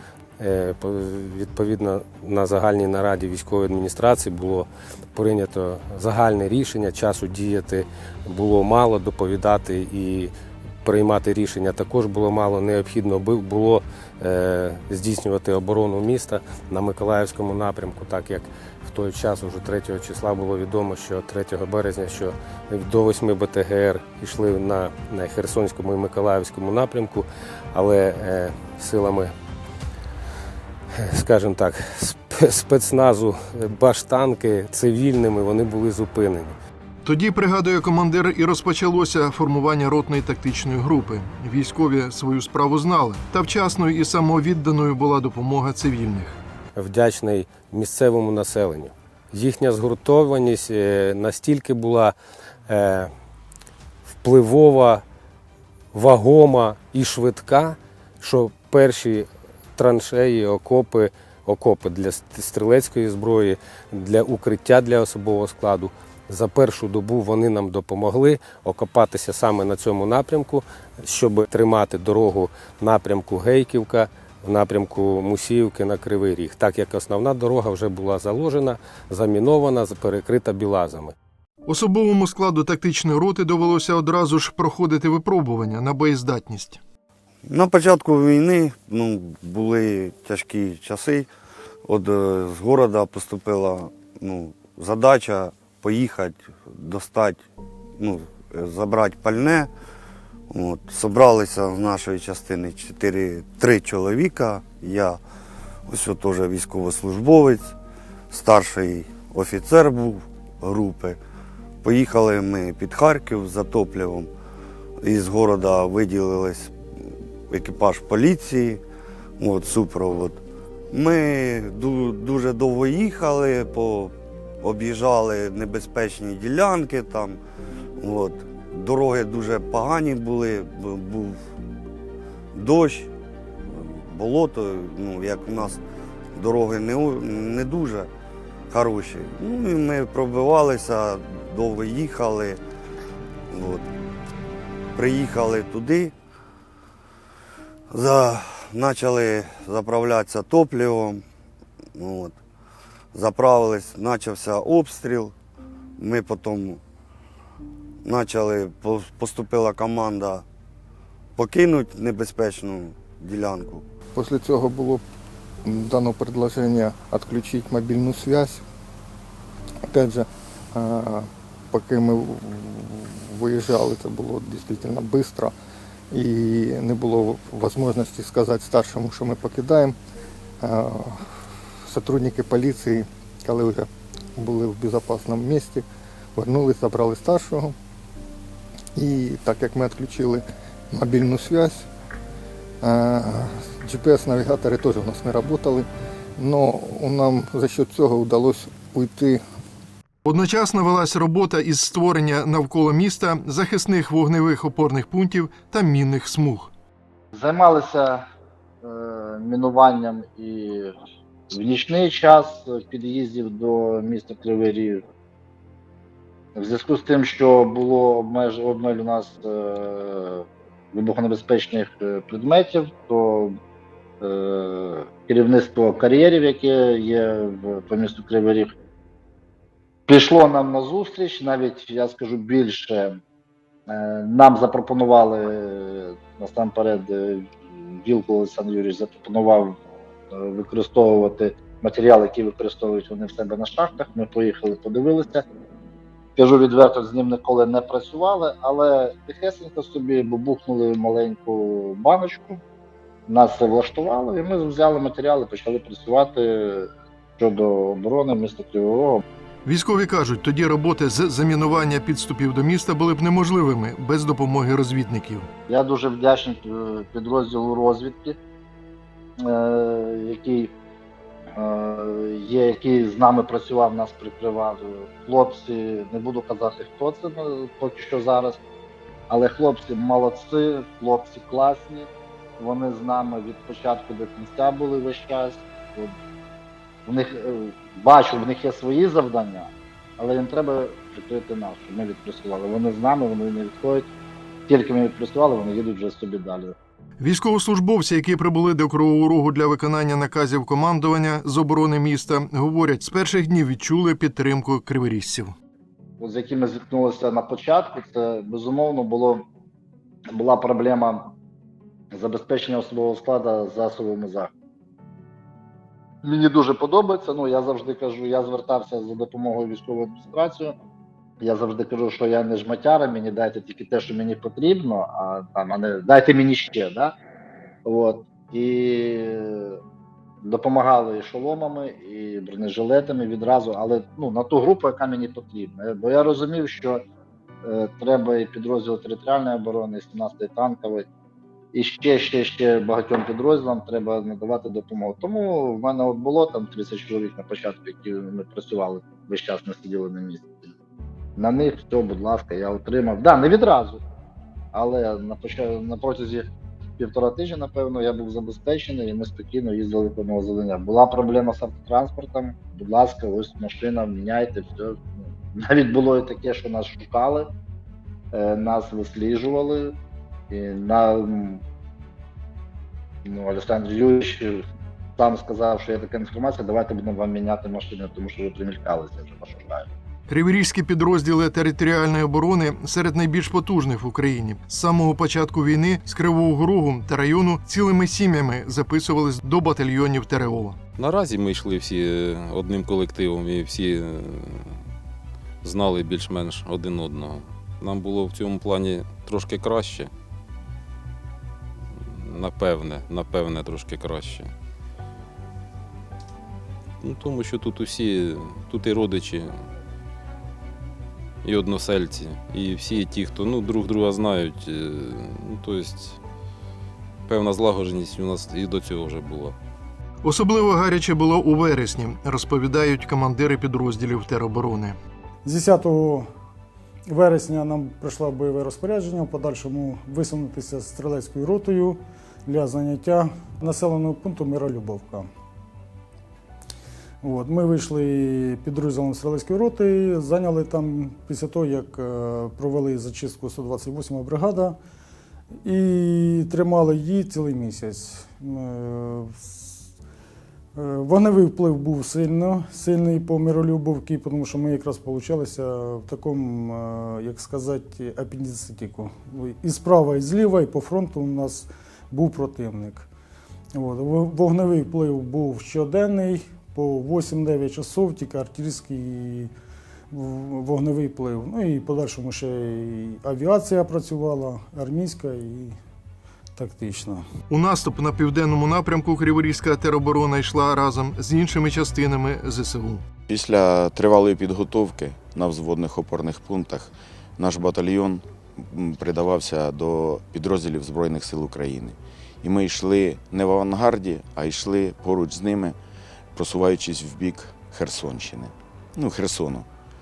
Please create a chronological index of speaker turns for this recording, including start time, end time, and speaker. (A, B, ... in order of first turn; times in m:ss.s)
0:00.4-0:10.3 A
0:10.8-0:29.3 A
0:31.0-0:36.6 A
0:37.0-0:46.4 B
0:46.8-0:52.1 A
0:52.7-0:53.1 A
0:54.2-0:55.0 A
0:55.9-1:21.1 A
1:21.7-1:26.8 B
1:27.4-1:31.3 C
1:31.8-1:37.4 C
1:38.0-1:39.7 C
1:40.5-1:45.2 C
1:45.9-1:47.7 C
1:48.3-1:51.2 C
1:51.8-1:54.3 C
1:55.0-1:56.8 C
1:57.5-1:58.8 C
1:59.4-2:07.4 C
2:08.0-2:11.4 C
2:12.5-2:13.1 C
2:13.7-2:15.8 C
2:16.3-2:18.1 C
2:18.7-2:22.6 C
2:23.5-2:23.8 C
2:24.9-2:26.1 C
2:27.9-2:31.2 C
2:31.9-2:32.4 C
2:33.1-2:35.3 C
2:36.0-2:36.8 C
2:38.0-2:40.4 C
2:41.4-2:43.8 C
2:44.1-2:45.0 D
2:45.6-2:48.6 D
2:49.9-2:55.5 D
2:56.1-3:00.0 D
3:00.6-3:01.3 D
3:01.9-3:07.7 D
3:09.0-3:11.8 D
3:12.8-3:19.4 D
3:20.2-3:26.7 B
3:27.3-3:28.2 E
3:28.8-3:30.9 E
3:31.5-3:35.0 E
3:36.6-3:43.5 E
3:44.2-3:48.7 E
3:50.1-3:53.2 E
3:53.9-3:59.8 E
4:00.3-4:05.4 E
4:06.4-4:12.6 E
4:13.3-4:19.2 E
4:19.6-4:25.5 B
4:25.7-4:28.4 E
4:29.4-4:30.7 E
4:31.6-4:38.6 E
4:39.3-4:46.1 E
4:47.0-4:54.1 E
4:54.7-4:56.7 E
4:57.2-5:05.5 B
5:06.2-5:09.4 E
5:10.3-5:11.3 E
5:12.1-5:14.5 E
5:16.2-5:20.7 E
5:21.4-5:27.1 E
5:27.8-5:29.8 E
5:30.4-5:37.0 E
5:37.6-5:41.0 E
5:41.7-5:50.7 E
5:51.4-5:54.0 E
5:54.7-5:56.4 E
5:57.0-6:07.5 E
6:08.3-6:09.9 E
6:10.5-6:11.6 E
6:13.2-6:14.6 E
6:15.2-6:19.9 E
6:20.3-6:30.8 B
6:30.9-6:34.7 F
6:35.6-6:40.1 F
6:42.0-6:44.5 F
6:47.0-6:49.6 F
6:51.4-6:56.2 F
6:57.3-6:59.5 F
7:00.2-7:05.0 B
7:05.4-7:06.3 G
7:07.1-7:15.3 G
7:17.2-7:24.8 G
7:25.6-7:29.6 G
7:30.8-7:43.1 G
7:43.7-7:49.5 G
7:50.1-7:55.8 G
7:56.6-7:57.2 G
7:57.5-8:03.0 B
8:03.3-8:15.8 H
8:16.3-8:19.7 H